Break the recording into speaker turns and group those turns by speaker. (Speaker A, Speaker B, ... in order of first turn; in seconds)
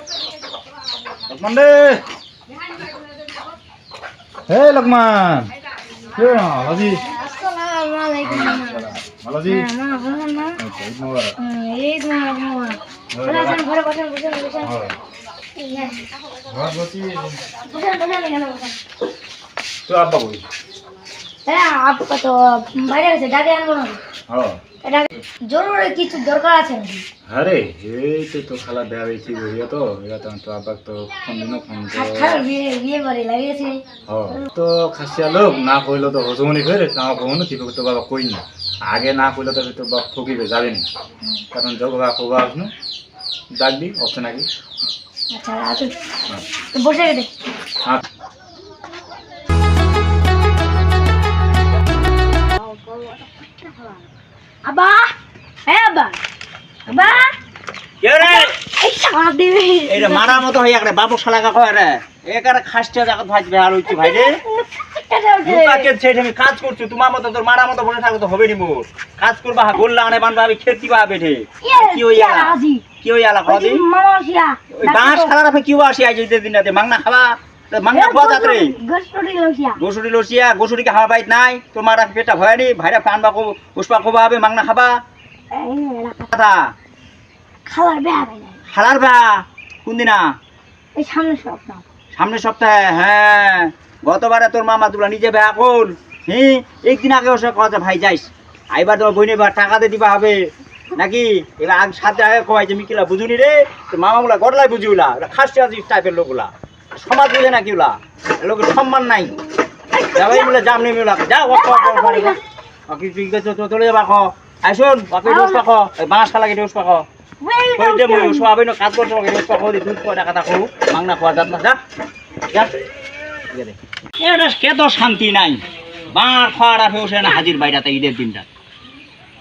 Speaker A: 1.3-2.0, 4.5-5.5, 6.1-7.0, 8.2-9.7, 10.6-11.4, 13.1-13.6, 14.6-14.9, 16.5-17.4, 19.9-20.4, 24.3-24.6, 27.3-32.4, 34.1-40.9, 41.5-42.7, 43.6-44.5
Speaker B: 7.0-10.6, 11.4-14.8, 15.6-16.1, 17.5-18.8, 21.5-24.0, 24.8-27.1, 31.9-33.7, 45.3-45.9, 46.7-47.3, 54.6-55.1, 55.7-56.2, 56.9-57.4, 58.2-60.5, 63.9-65.9, 71.6-72.9, 73.5-75.3, 77.9-79.8, 85.5-86.3, 87.7-88.6, 91.0-91.8, 109.9-110.6, 111.5-112.4, 115.2-115.6, 117.4-118.5
Speaker C: 56.9-57.2, 58.0-58.5, 59.9-64.4, 65.4-73.8, 74.7-78.8, 79.8-84.9, 86.3-86.6, 88.7-90.2, 92.2-109.3, 110.2-112.4, 112.9-117.0, 117.8-121.8, 123.5-125.6, 126.1-128.5